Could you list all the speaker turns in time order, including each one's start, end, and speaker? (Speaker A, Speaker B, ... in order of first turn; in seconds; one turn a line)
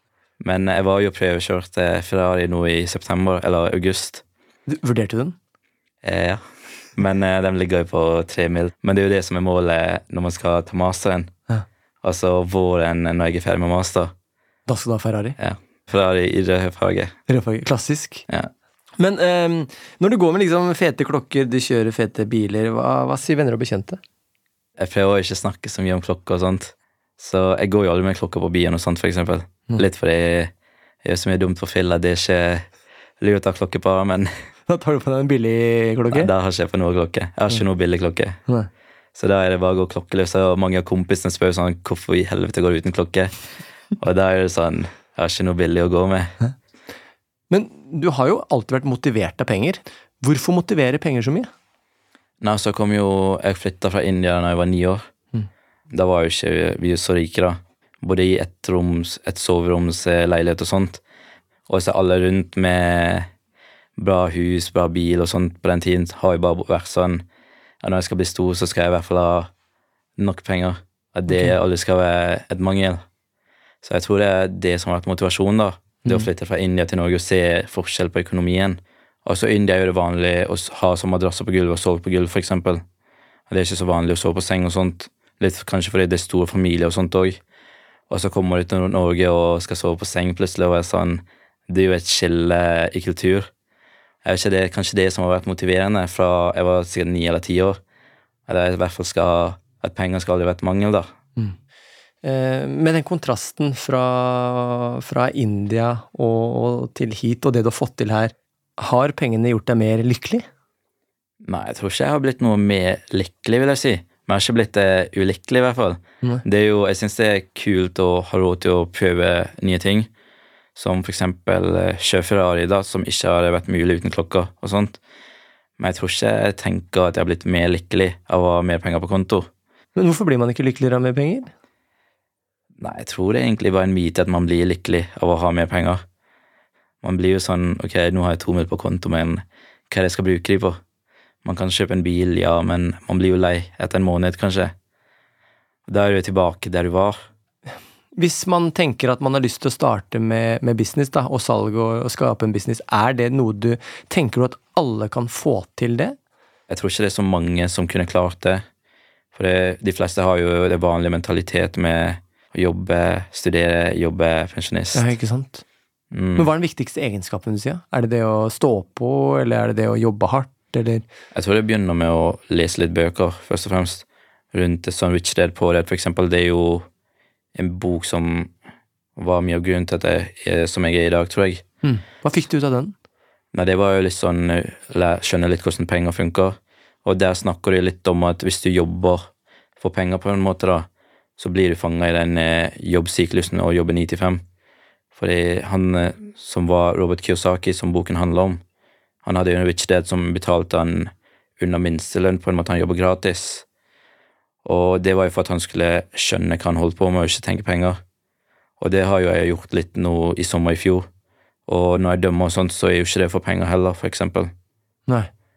Speaker A: 0.4-4.2
Speaker B: 4.7-5.4
Speaker A: 6.0-6.4
Speaker A: 7.0-11.3
Speaker A: 12.0-14.1
Speaker B: 14.7-15.3
Speaker A: 15.4-17.1
Speaker B: 17.3-18.2
Speaker B: 19.0-24.0
Speaker A: 24.8-30.5
Speaker A: 31.0-32.7
Speaker A: 33.2-34.3
Speaker B: 34.7-36.3
Speaker A: 36.1-38.4
Speaker A: 39.1-43.4
Speaker A: 44.0-46.4
Speaker B: 47.5-51.5
Speaker A: 52.4-55.1
Speaker A: 55.9-61.0
Speaker A: 61.7-63.3
Speaker A: 64.0-67.2
Speaker A: 67.8-69.5
Speaker A: 70.2-73.0
Speaker A: 73.8-82.8
Speaker A: 83.5-87.4
Speaker A: 88.1-93.5
Speaker A: 94.2-97.8
Speaker A: 98.5-101.1
Speaker B: 102.2-110.5
Speaker A: 111.4-120.1
Speaker A: 120.8-125.0
Speaker A: 125.8-129.5
Speaker B: 129.9-131.5
Speaker A: 132.8-136.0
Speaker A: 137.0-140.8
Speaker A: 141.4-144.7
Speaker A: 145.9-147.2
Speaker B: 148.1-156.2
Speaker A: 156.7-158.6
Speaker A: 159.3-165.1
Speaker B: 164.9-165.6
Speaker A: 166.1-166.5
Speaker B: 166.4-171.0
Speaker A: 171.3-176.8
Speaker A: 177.5-178.5
Speaker A: 179.2-181.6
Speaker B: 181.8-182.9
Speaker A: 183.5-189.2
Speaker A: 189.8-190.9
Speaker A: 191.4-194.4
Speaker A: 195.1-198.6
Speaker A: 199.2-203.6
Speaker A: 204.6-208.0
Speaker A: 208.8-211.1
Speaker A: 211.7-214.5